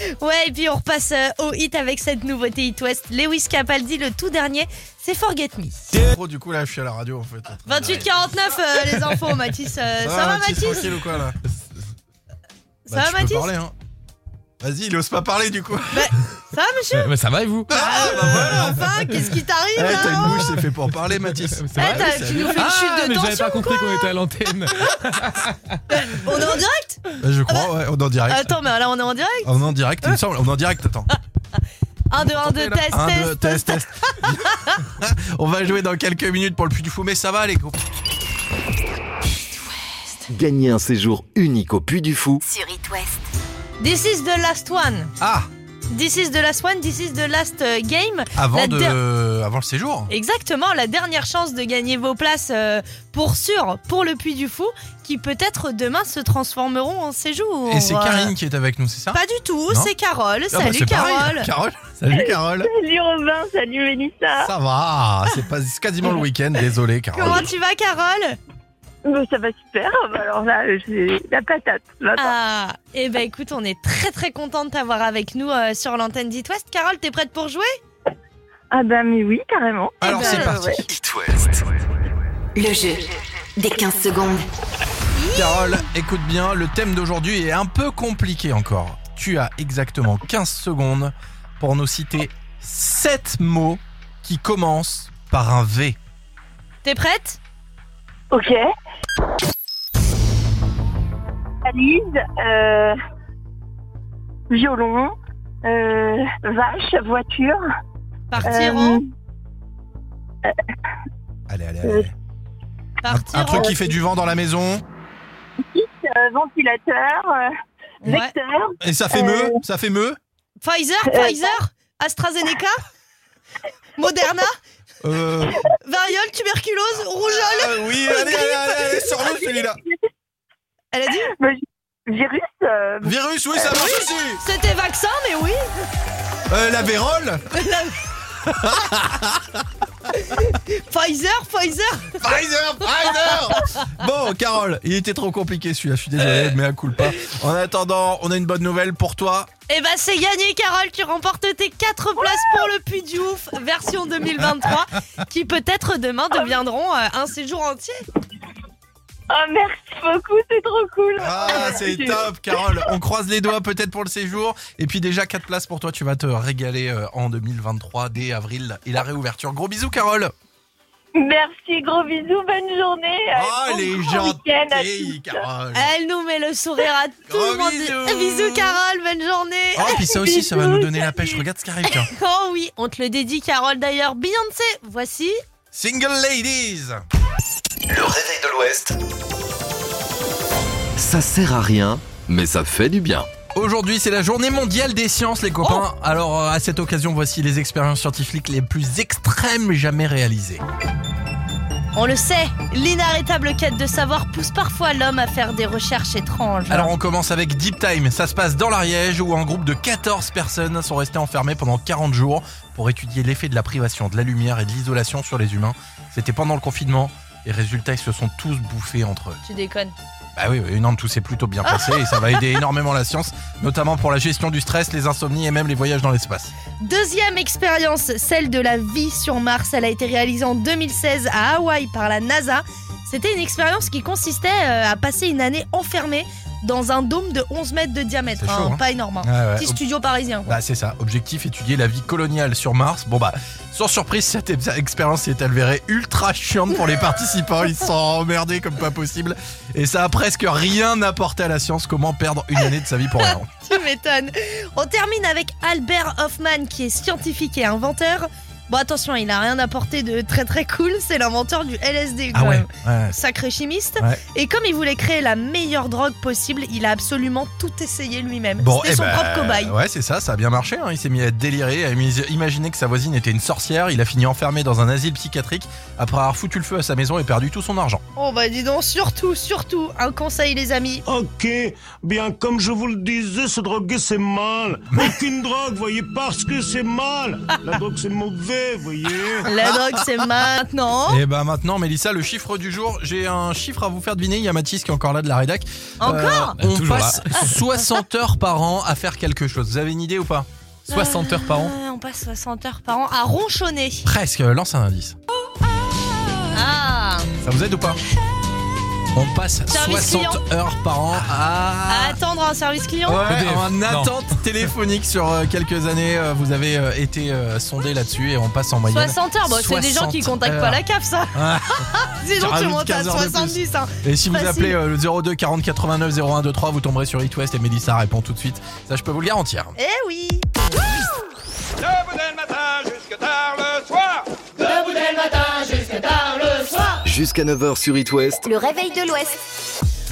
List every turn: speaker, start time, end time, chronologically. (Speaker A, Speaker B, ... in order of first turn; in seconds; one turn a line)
Speaker A: 0.2-5.9
Speaker B: 5.9-8.1
Speaker A: 7.7-10.9
Speaker B: 10.0-11.4
Speaker A: 12.9-13.5
Speaker B: 12.9-13.7
Speaker B: 14.6-16.1
Speaker A: 15.9-17.1
Speaker C: 17.0-18.6
Speaker B: 17.7-18.8
Speaker A: 17.7-20.5
Speaker B: 19.8-22.8
Speaker C: 21.4-25.6
Speaker A: 21.8-24.1
Speaker A: 25.9-27.7
Speaker B: 27.2-28.6
Speaker A: 28.3-29.5
Speaker B: 29.4-31.1
Speaker A: 32.1-34.7
Speaker B: 32.1-37.8
Speaker D: 40.3-42.4
Speaker E: 42.4-43.2
Speaker A: 43.8-45.1
Speaker B: 45.2-45.5
Speaker A: 45.9-49.0
Speaker B: 48.4-50.1
Speaker A: 50.1-58.3
Speaker B: 57.7-59.9
Speaker A: 59.1-61.5
Speaker B: 60.5-62.7
Speaker F: 62.1-64.5
Speaker B: 64.4-67.5
Speaker A: 67.1-68.4
Speaker F: 69.0-72.3
Speaker A: 72.2-77.7
Speaker F: 78.7-80.8
Speaker B: 80.0-80.9
Speaker A: 80.0-80.5
Speaker D: 80.9-81.6
Speaker E: 82.5-84.4
Speaker A: 85.2-85.8
Speaker B: 85.3-96.0
Speaker A: 96.8-97.4
Speaker F: 98.3-98.6
Speaker F: 101.6-103.0
Speaker F: 104.5-105.1
Speaker F: 105.6-107.6
Speaker A: 108.3-109.0
Speaker B: 108.3-108.6
Speaker F: 108.4-109.0
Speaker B: 111.5-112.1
Speaker A: 113.0-113.7
Speaker B: 113.1-114.8
Speaker F: 113.5-113.8
Speaker F: 115.7-117.5
Speaker A: 118.0-118.3
Speaker F: 118.0-119.6
Speaker B: 118.8-120.2
Speaker A: 120.6-122.8
Speaker F: 121.1-121.5
Speaker A: 124.0-124.6
Speaker B: 125.0-125.6
Speaker A: 125.8-128.6
Speaker B: 127.2-129.8
Speaker F: 129.1-130.0
Speaker A: 130.9-131.3
Speaker F: 131.3-133.9
Speaker B: 133.0-134.4
Speaker A: 134.4-135.6
Speaker B: 136.5-137.5
Speaker A: 137.5-137.9
Speaker B: 138.4-139.6
Speaker A: 140.2-142.2
Speaker B: 142.2-149.5
Speaker A: 149.7-158.0
Speaker F: 159.3-162.8
Speaker B: 161.2-170.3
Speaker F: 171.2-175.4
Speaker B: 173.3-175.9
Speaker A: 175.7-180.1
Speaker B: 177.3-178.8
Speaker B: 179.7-182.1
Speaker F: 179.9-181.3
Speaker A: 181.9-185.4
Speaker B: 185.7-187.0
Speaker D: 187.9-188.9
Speaker D: 191.0-193.3
Speaker B: 193.5-200.6
Speaker A: 201.9-206.9
Speaker B: 206.7-219.4
Speaker A: 219.4-219.9
Speaker B: 220.3-226.5
Speaker A: 221.6-222.6
Speaker A: 226.8-240.6
Speaker B: 238.4-239.8
Speaker B: 240.4-253.5
Speaker A: 253.2-269.7
Speaker B: 262.3-263.1
Speaker B: 268.6-278.0
Speaker A: 278.1-281.0
Speaker G: 281.1-289.5
Speaker A: 289.4-291.2
Speaker B: 289.6-290.2
Speaker B: 291.1-300.5
Speaker A: 296.0-296.6
Speaker C: 296.6-297.5
Speaker A: 300.9-304.1
Speaker C: 300.9-301.7
Speaker B: 304.0-305.2
Speaker A: 306.5-307.3
Speaker B: 307.4-308.0
Speaker B: 309.1-312.2
Speaker A: 309.7-310.4
Speaker A: 311.9-313.3
Speaker B: 313.1-320.8
Speaker C: 313.2-314.1
Speaker A: 318.9-321.4
Speaker B: 321.3-329.7
Speaker A: 322.2-324.8
Speaker A: 329.8-330.6
Speaker D: 337.0-338.4
Speaker E: 338.4-339.4